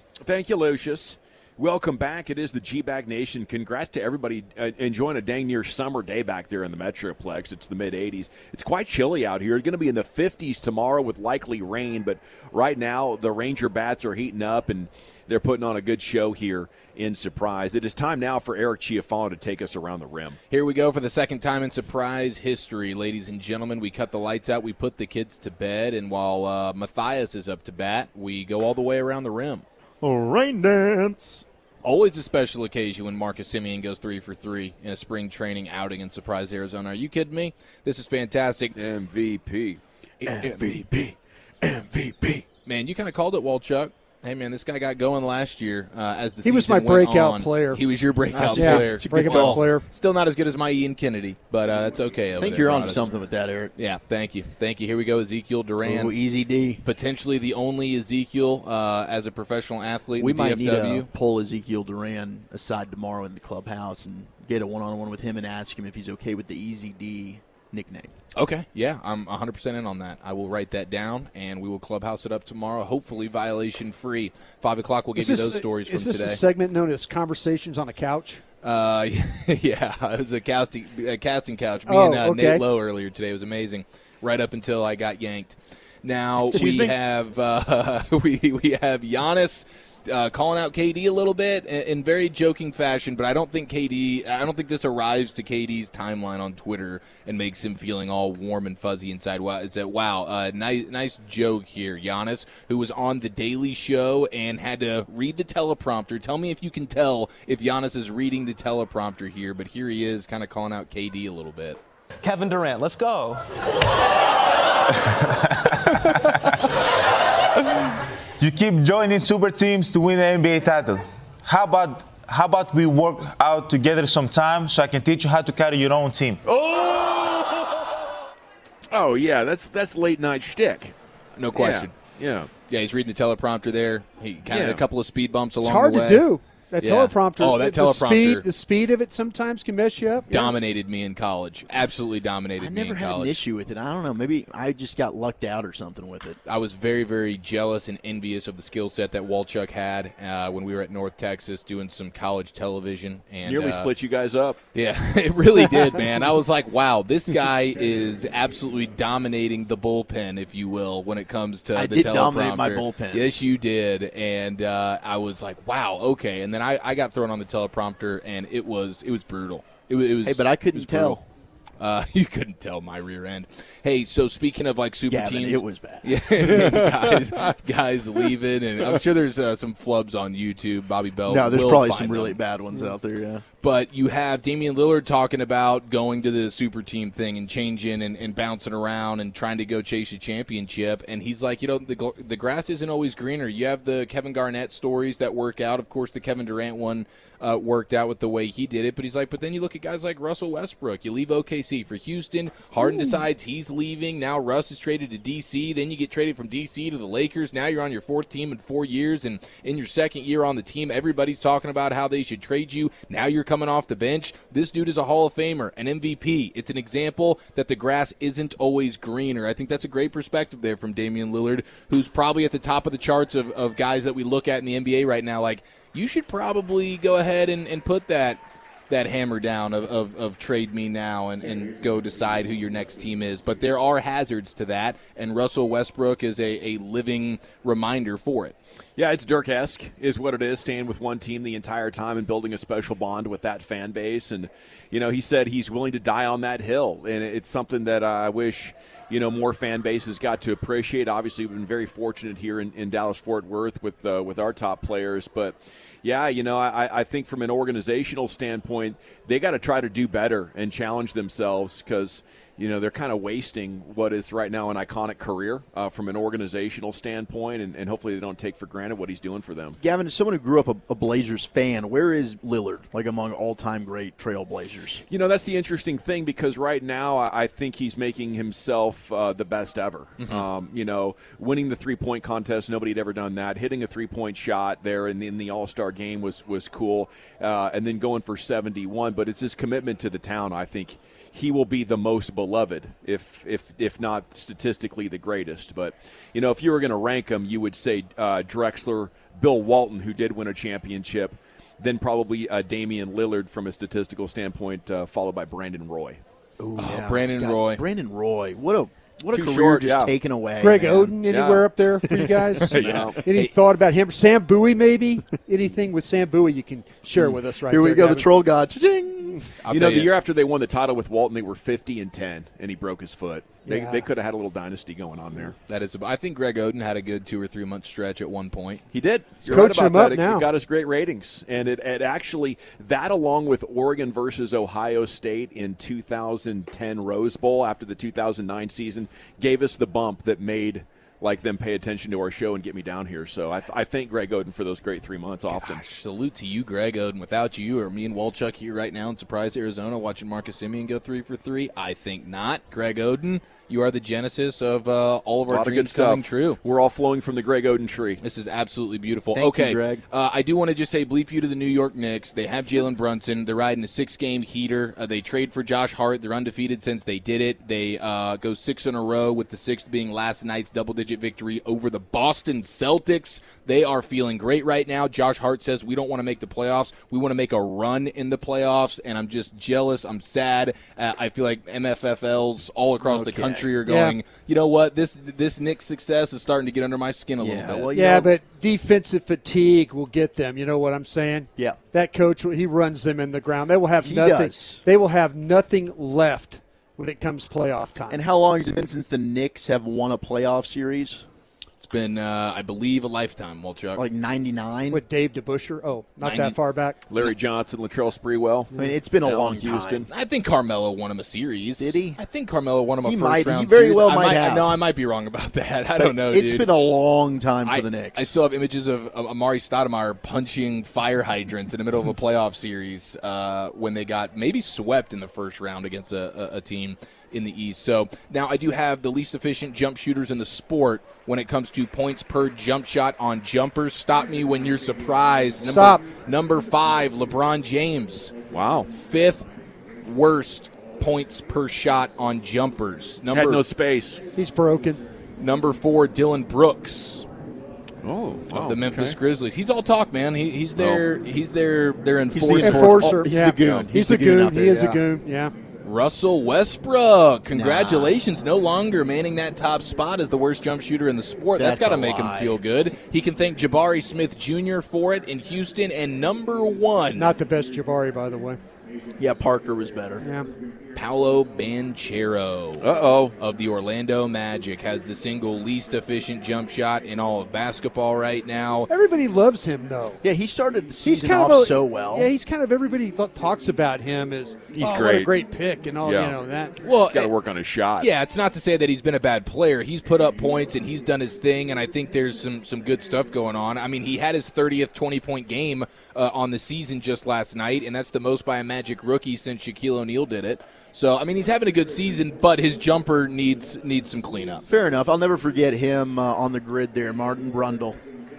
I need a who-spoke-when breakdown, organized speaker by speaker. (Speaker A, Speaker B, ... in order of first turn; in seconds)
Speaker A: 0.2-20.4, 38.8-41.0, 41.8-42.4, 126.6-127.8, 128.9-130.9, 131.5-132.5, 134.5-134.8, 153.4-154.6, 176.5-177.4, 239.0-269.8, 275.1-306.2, 309.3-310.1, 311.3-311.8, 312.7-313.3, 319.7-325.6, 328.9-345.8, 355.5-358.2, 407.1-410.1, 438.5-438.9, 443.3-444.2, 448.0-449.2, 450.8-451.1, 472.8-473.4, 484.7-485.3, 486.0-486.4, 487.1-488.1
Speaker B: 20.5-29.6, 31.8-38.8, 40.3-40.8, 42.6-53.1, 53.8-56.2, 56.8-61.1, 68.3-76.4, 78.6-111.8, 131.4-132.0, 132.7-136.3, 136.8-138.4, 140.3-143.4, 146.5-153.9, 154.7-171.2, 171.8-182.4, 183.6-238.6, 306.8-307.8, 312.7-313.5, 319.6-320.1, 325.7-328.8, 345.5-356.6, 358.2-387.9, 401.8-404.0, 406.2-406.6, 410.1-416.7, 417.6-438.3, 438.9-439.5, 440.0-443.6, 445.4-447.2, 448.5-453.2, 455.8-467.4, 470.9-478.9, 486.8-487.3, 488.0-504.6
Speaker C: 30.0-31.4, 48.5-49.6, 52.4-53.7, 55.8-56.8, 60.2-68.1, 86.5-87.0, 142.6-146.4, 161.7-163.4, 170.2-171.2, 175.1-176.2, 181.2-183.4, 269.8-275.0, 306.6-311.3, 312.1-313.1, 317.2-319.5, 359.3-360.0, 383.0-383.8, 387.4-388.4, 394.0-394.8, 398.1-401.2, 403.9-405.0, 408.8-410.1, 411.8-412.2, 413.0-414.8, 416.1-418.3, 452.3-455.0, 457.5-458.2, 461.6-462.6, 469.2-470.2, 480.2-482.3, 504.7-508.0
Speaker D: 46.5-47.8, 48.3-49.9, 75.2-78.4, 81.9-82.7, 135.6-140.4, 310.6-318.3, 323.6-324.1, 329.4-330.5, 383.9-384.2, 387.9-398.2, 404.9-407.0, 435.6-436.1, 444.4-445.0, 452.6-455.5, 467.1-468.6, 470.2-470.5, 478.9-480.2, 481.1-486.9
Speaker E: 112.2-113.5, 114.9-116.6, 117.8-126.5